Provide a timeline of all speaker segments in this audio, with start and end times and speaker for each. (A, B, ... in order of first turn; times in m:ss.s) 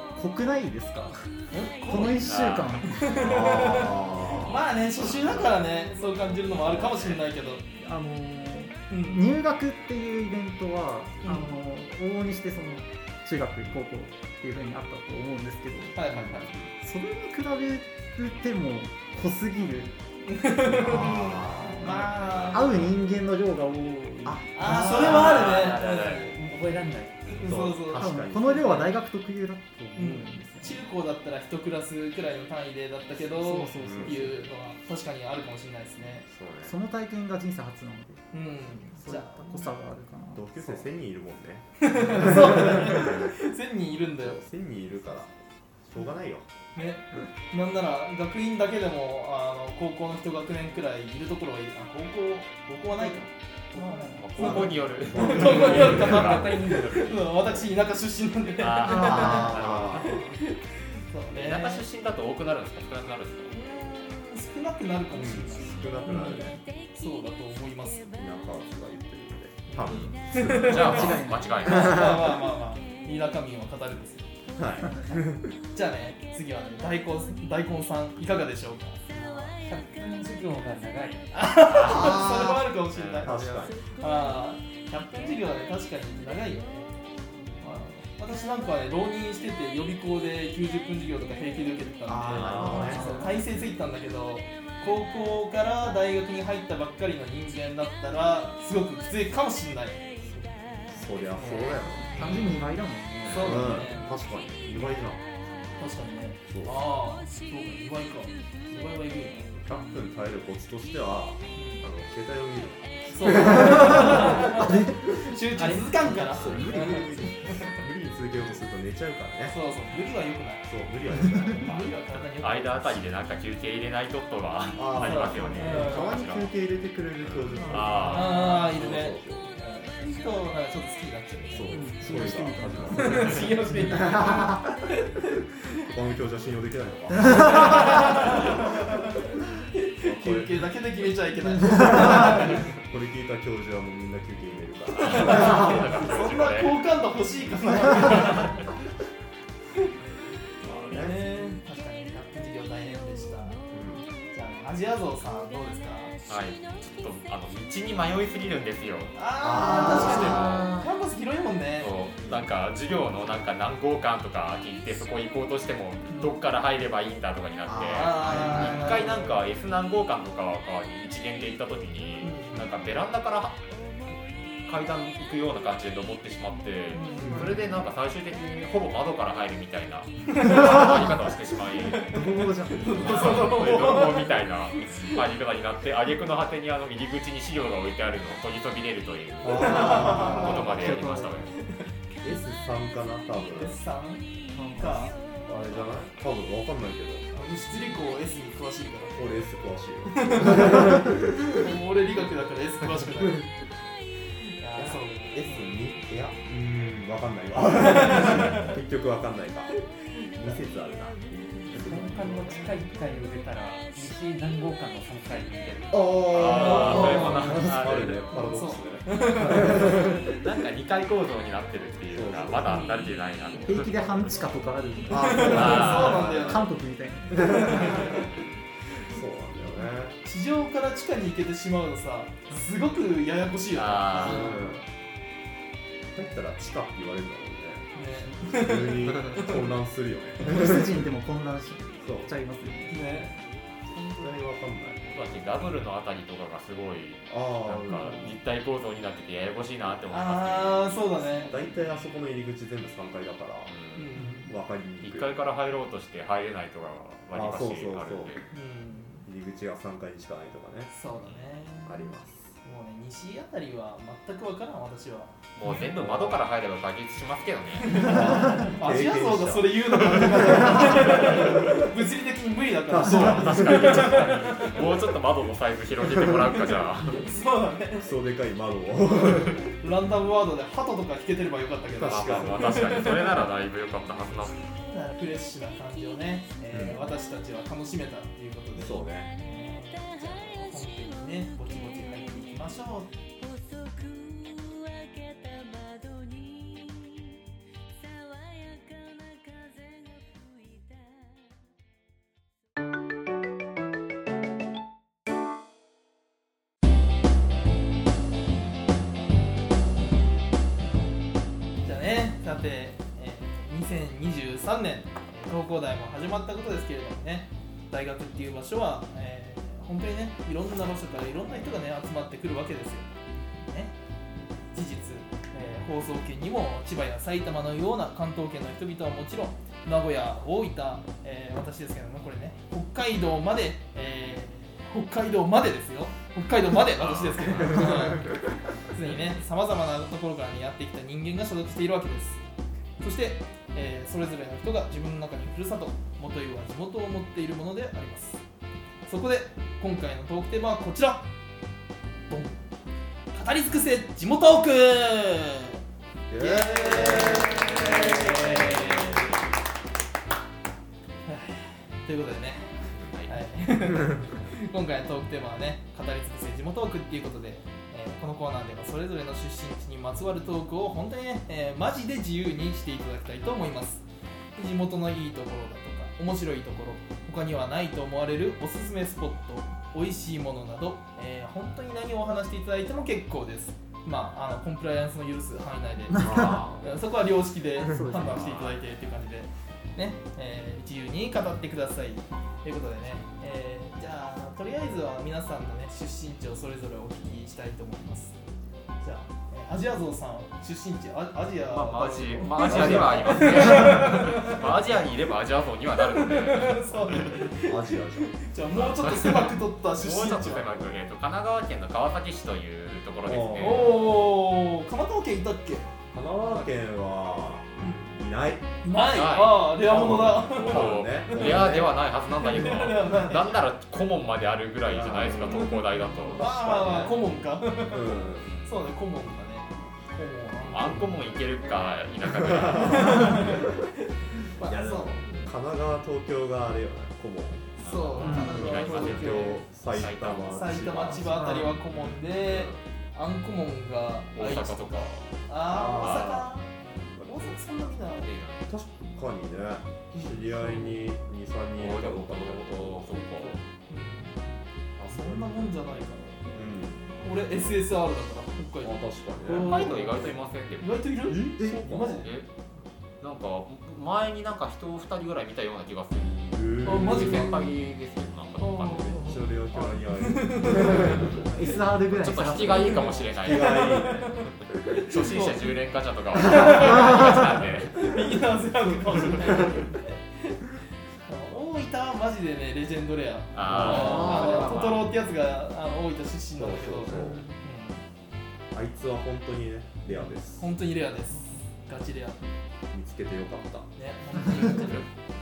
0:00.1-0:01.3 A
0:01.5-0:02.2 B
0:01.8-0:03.3 A
0:02.1-0:02.8 C
0:02.9-0:07.6 B
0:03.2-0:04.7 D
0:06.7-0:07.2 C
0:07.7-0:20.0 A
0:08.9-0:09.3 B
0:11.2-0:11.6 B
0:16.0-0:16.6 B
0:20.3-0:22.8 B
0:20.7-0:21.9 A
0:20.8-0:22.0 D
0:22.0-0:22.8 C
0:22.5-0:25.1 A
0:24.2-0:25.6 D
0:24.5-0:26.4 B
0:24.9-0:26.3 C
0:25.5-0:27.5 E
0:27.4-0:28.9 B
0:27.4-0:28.8 D
0:28.0-0:30.8 A
0:30.0-0:36.3 B
0:33.2-0:34.4 A
0:33.8-0:34.3 D
0:36.3-0:36.8 D
0:36.6-0:38.2 A
0:38.3-0:39.7 B
0:38.9-0:40.8 A
0:40.3-0:43.3 D
0:41.8-0:44.4 B
0:44.2-0:46.5 D
0:46.8-1:01.8 B
0:53.7-0:54.6 A
0:54.2-0:56.6 C
0:54.5-0:56.0 D
0:55.2-0:57.3 E
0:58.6-1:00.4 C
0:58.8-1:00.2 D
1:01.3-1:03.5 C
1:03.5-1:08.1 B
1:05.1-1:06.6 D
1:08.1-1:12.4 D
1:09.7-1:14.3 B
1:09.9-1:12.2 C
1:10.8-1:12.1 A
1:14.6-1:15.6 D
1:15.0-1:19.0 B
1:19.1-1:21.4 E
1:21.3-1:26.9 B
1:21.7-1:22.2 C
1:21.7-1:23.8 D
1:22.9-1:23.4 C
1:27.6-1:40.5 B
1:32.1-1:33.3 D
1:32.3-1:32.6 C
1:32.5-1:33.2 A
1:40.9-1:42.4 D
1:41.4-1:42.7 B
1:42.1-1:43.9 A
1:43.3-1:43.6 C
1:43.3-1:44.1 B
1:43.4-1:45.2 D
1:45.8-1:49.6 B
1:46.5-1:46.8 D
1:49.6-1:55.0 D
1:51.6-1:51.8 B
1:53.1-1:57.8 B
1:53.4-1:55.8 A
1:55.6-1:56.0 E
1:56.0-1:59.6 D
1:59.5-2:00.7 B
2:00.7-2:02.0 D
2:01.4-2:03.0 B
2:02.1-2:06.5 C
2:04.8-2:09.6 D
2:05.0-2:06.2 B
2:07.2-2:08.6 C
2:07.6-2:08.3 A
2:08.1-2:11.9 B
2:11.5-2:14.7 D
2:11.7-2:14.6 A
2:12.9-2:15.9 B
2:15.8-2:18.8 D
2:17.2-2:22.8 B
2:20.0-2:20.7 D
2:21.8-2:22.4 A
2:22.0-2:26.0 D
2:25.0-2:26.8 C
2:25.0-2:28.7 B
2:30.6-2:31.2 D
2:30.6-2:33.6 B
2:33.7-2:34.1 D
2:34.3-2:36.2 B
2:36.3-2:40.7 C
2:39.2-2:42.0 B
2:39.4-2:40.8 D
2:41.8-2:53.9 C
2:42.2-2:42.4 D
2:46.1-2:46.4 B
2:47.7-2:49.0 D
2:47.9-2:49.4 B
2:52.2-2:52.7 B
2:54.6-3:02.2 C
2:56.9-2:57.5 B
2:57.2-2:57.8 D
3:00.3-3:01.1 B
3:00.7-3:01.0 A
3:01.8-3:05.2 B
3:02.0-3:03.2 A
3:02.9-3:03.6 D
3:02.9-3:11.6 C
3:09.4-3:11.2 D
3:09.6-3:10.8 B
3:10.0-3:11.5 A
3:11.6-3:11.9 B
3:12.2-3:13.8 D
3:13.5-3:15.9 B
3:14.6-3:15.0 A
3:15.4-3:17.3 D
3:17.3-3:19.2 B
3:19.2-3:21.8 D
3:20.1-3:23.5 B
3:24.6-3:25.8 B
3:24.8-3:29.7 D
3:27.7-3:28.8 B
3:29.8-3:30.6 B
3:30.4-3:32.2 D
3:31.7-3:32.7 B
3:31.7-3:36.1 E
3:35.9-3:40.4 D
3:36.3-3:38.3 C
3:36.4-3:37.6 B
3:37.2-3:38.1 A
3:38.3-3:40.1 B
3:39.8-3:44.0 C
3:42.1-3:43.0 D
3:43.6-3:48.2 A
3:45.1-3:46.7 D
3:45.2-3:46.7 B
3:45.4-3:46.4 C
3:47.4-3:48.4 B
3:47.5-3:48.3 D
3:49.1-3:50.2 D
3:50.2-3:54.8 B
3:53.7-3:54.6 C
3:54.2-3:54.8 D
3:56.1-4:01.0 D
3:57.9-3:59.7 B
4:00.4-4:03.2 A
4:02.0-4:02.3 D
4:02.9-4:04.4 B
4:04.2-4:05.1 D
4:05.0-4:11.0 C
4:07.3-4:08.4 D
4:10.1-4:11.9 B
4:11.4-4:13.9 D
4:13.7-4:14.1 C
4:14.0-4:14.5 B
4:14.5-4:15.3 D
4:15.0-4:18.4 C
4:17.3-4:18.4 D
4:18.5-4:19.3 B
4:19.2-4:20.9 D
4:20.9-4:22.1 B
4:21.9-4:22.5 D
4:22.6-4:25.4 B
4:25.6-4:28.1 C
4:25.7-4:26.4 D
4:27.8-4:34.9 B
4:27.9-4:31.9 D
4:28.3-4:28.7 A
4:32.9-4:34.6 D
4:33.1-4:37.3 C
4:37.1-4:38.1 B
4:38.0-4:39.7 D
4:39.8-4:43.5 B
4:42.0-4:42.7 D
4:42.0-4:44.8 C
4:44.6-4:53.1 B
4:46.7-4:47.0 D
4:48.8-4:49.3 D
5:11.8-5:23.9 B
5:24.7-5:42.4 B
5:37.0-5:38.4 C
5:43.0-5:48.4 B
5:49.0-5:51.3 B
5:52.3-5:52.6 B
5:53.3-5:55.8 B
5:56.3-5:59.0 D
5:56.4-5:59.4 B
5:56.9-5:59.4 C
6:01.3-6:38.4 B
6:03.1-6:03.4 C
6:26.2-6:27.0 D
6:27.8-6:28.5 A
6:28.2-6:28.8 C
6:39.0-6:44.9 B
6:41.7-6:47.5 C
6:42.6-6:44.0 D
6:46.1-6:50.8 B
6:47.6-6:48.8 D
6:48.7-6:54.0 C
6:50.6-6:50.9 D
6:53.2-6:54.1 D
6:53.5-6:55.9 B
6:56.1-6:58.7 D
6:57.8-6:58.1 B
6:58.8-7:01.8 B
6:59.0-7:07.1 C
6:59.8-7:02.0 D
7:02.4-7:03.6 B
7:04.8-7:07.2 D
7:05.4-7:11.1 B
7:07.9-7:08.5 D
7:08.4-7:08.7 C
7:10.6-7:13.5 C
7:12.4-7:13.6 D
7:12.8-7:15.5 B
7:14.6-7:21.8 D
7:17.8-7:19.7 B
7:17.8-7:22.8 C
7:20.4-7:28.3 B
7:21.5-7:21.7 A
7:24.4-7:26.5 C
7:25.6-7:26.4 D
7:27.2-7:27.6 D
7:28.2-7:28.7 C
7:28.7-7:33.2 D
7:30.1-7:31.0 B
7:31.8-7:33.6 C
7:33.4-7:34.6 B
7:35.0-7:35.8 D
7:35.1-7:36.5 B
7:36.5-7:37.2 D
7:37.1-7:42.3 B
7:38.8-7:39.8 D
7:39.5-7:41.1 C
7:41.2-7:42.3 D
7:42.2-7:42.5 C
7:43.2-7:49.3 C
7:46.5-7:47.7 D
7:46.8-7:47.8 B
7:48.6-7:51.5 B
7:48.9-7:51.5 D
7:51.4-7:53.3 A
7:52.1-7:54.1 C
7:52.2-7:55.0 D
7:53.5-7:55.8 B
7:55.0-7:58.2 C
7:56.4-8:00.6 B
8:01.3-8:08.0 B
8:03.5-8:05.1 C
8:03.7-8:05.0 D
8:06.6-8:07.5 D
8:08.7-8:10.7 D
8:10.1-8:12.4 B
8:12.9-8:13.9 D
8:14.0-8:15.1 B